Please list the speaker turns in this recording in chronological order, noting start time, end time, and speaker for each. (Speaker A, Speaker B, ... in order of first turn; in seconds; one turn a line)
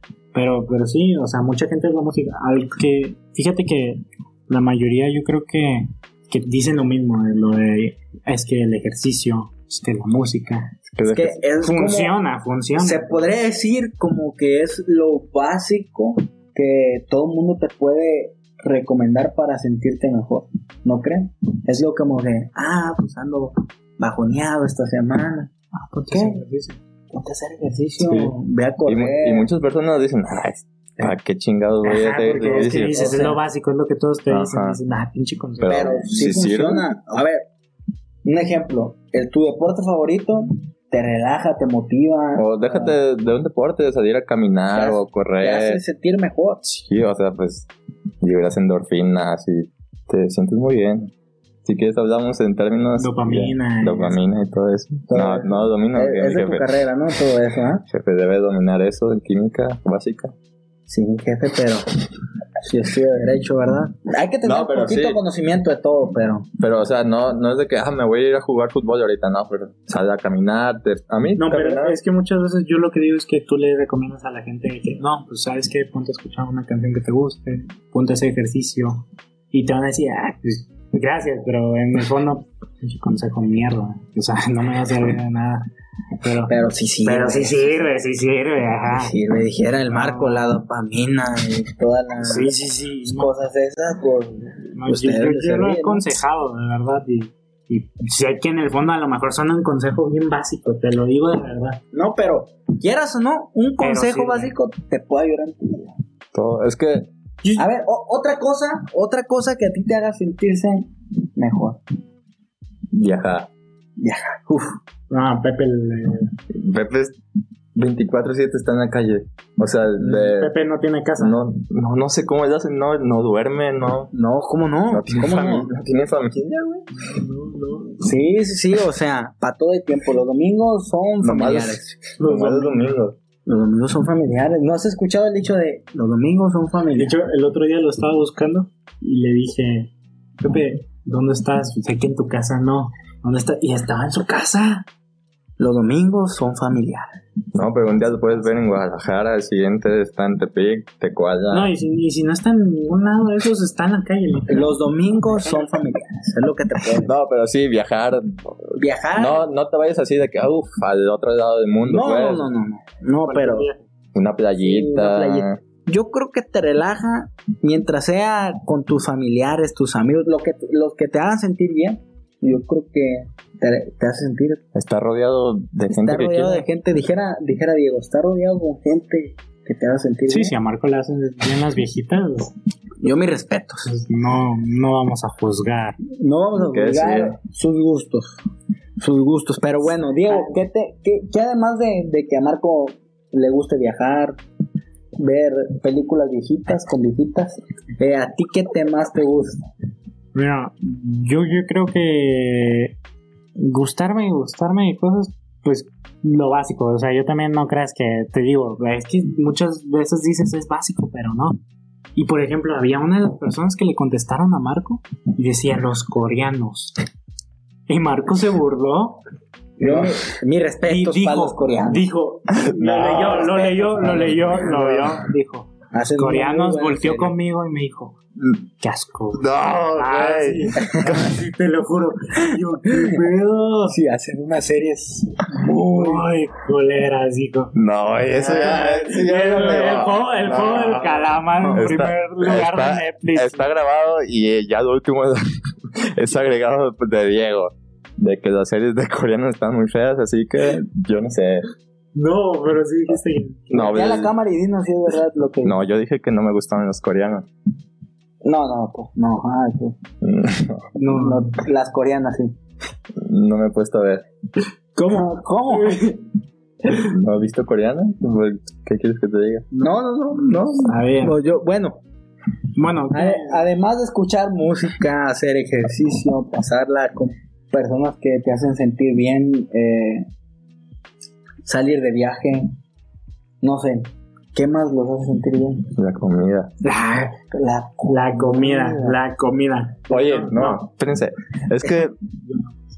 Speaker A: 0.3-10.7
Speaker B: 10.9-11.4
Speaker C: 11.0-12.1
Speaker A: 11.6-13.3
Speaker C: 12.8-25.5
Speaker A: 25.7-26.8
Speaker C: 26.1-26.4
Speaker C: 27.1-29.5
Speaker B: 28.0-28.3
Speaker B: 28.8-33.2
Speaker A: 31.8-36.3
Speaker C: 32.4-33.4
Speaker B: 34.3-34.8
Speaker B: 35.6-36.9
Speaker C: 35.6-37.4
Speaker C: 38.2-43.0
Speaker B: 42.3-45.8
Speaker C: 44.7-46.6
Speaker B: 46.6-47.7
Speaker B: 48.2-51.1
Speaker B: 51.6-56.7
Speaker A: 53.0-54.2
Speaker C: 55.1-57.8
Speaker B: 57.9-60.3
Speaker C: 60.9-61.9
Speaker C: 62.7-66.5
Speaker B: 64.4-65.2
Speaker B: 66.6-72.0
Speaker A: 71.4-85.7
Speaker A: 86.2-89.1
Speaker C: 86.5-87.8
Speaker C: 88.9-92.5
Speaker A: 89.9-90.5
Speaker A: 92.2-93.3
Speaker C: 93.0-96.0
Speaker A: 94.8-101.8
Speaker C: 101.9-105.9
Speaker A: 103.8-104.5
Speaker B: 106.3-107.1
Speaker C: 107.6-111.8
Speaker B: 112.9-113.5
Speaker C: 114.0-114.8
Speaker A: 115.1-116.3
Speaker B: 116.5-117.1
Speaker B: 117.7-120.5
Speaker A: 120.0-121.5
Speaker B: 121.2-124.1
Speaker C: 124.1-125.7
Speaker B: 124.9-126.8
Speaker A: 127.0-128.1
Speaker C: 128.0-132.0
Speaker B: 131.2-133.2
Speaker A: 132.2-133.0
Speaker C: 133.4-137.2
Speaker A: 136.9-144.8
Speaker C: 145.6-147.0
Speaker B: 147.5-151.7
Speaker A: 148.2-148.5
Speaker A: 151.5-154.8
Speaker C: 154.5-157.1
Speaker A: 155.3-155.7
Speaker B: 157.0-162.5
Speaker C: 158.8-159.5
Speaker C: 161.8-163.7
Speaker A: 163.2-163.9
Speaker B: 164.1-165.6
Speaker C: 164.6-174.6
Speaker B: 174.7-176.7
Speaker C: 175.9-180.6
Speaker A: 180.3-182.5
Speaker C: 183.0-183.8
Speaker A: 183.8-185.9
Speaker C: 186.2-188.4
Speaker B: 186.6-187.3
Speaker C: 189.0-194.3
Speaker A: 190.2-190.6
Speaker C: 195.2-199.6
Speaker A: 200.3-202.9
Speaker A: 203.6-211.6
Speaker A: 212.1-217.0
Speaker A: 217.9-219.2
Speaker C: 219.8-222.1
Speaker A: 219.8-220.1
Speaker A: 220.8-228.2
Speaker B: 222.5-223.5
Speaker C: 223.3-225.1
Speaker C: 225.9-227.3
Speaker A: 228.8-233.9
Speaker B: 229.3-231.3
Speaker C: 233.9-236.3
Speaker A: 235.9-237.7
Speaker B: 237.7-245.4
Speaker A: 238.4-243.7
Speaker C: 238.6-239.2
Speaker C: 241.6-241.9
Speaker B: 245.9-251.6
Speaker A: 252.1-253.9
Speaker B: 253.7-254.3
Speaker C: 253.7-255.8
Speaker B: 255.6-257.4
Speaker C: 258.4-259.9
Speaker B: 260.2-260.8
Speaker A: 261.0-261.5
Speaker C: 261.0-262.5
Speaker B: 263.2-264.2
Speaker A: 265.0-266.2
Speaker C: 265.0-266.0
Speaker B: 267.1-269.6
Speaker A: 269.7-271.4
Speaker C: 269.8-272.0
Speaker A: 272.7-273.6
Speaker C: 273.1-280.3
Speaker C: 281.6-282.7
Speaker C: 283.6-285.9
Speaker B: 285.9-286.7
Speaker A: 286.8-287.3
Speaker C: 287.5-289.1
Speaker A: 288.1-290.9
Speaker B: 290.1-292.1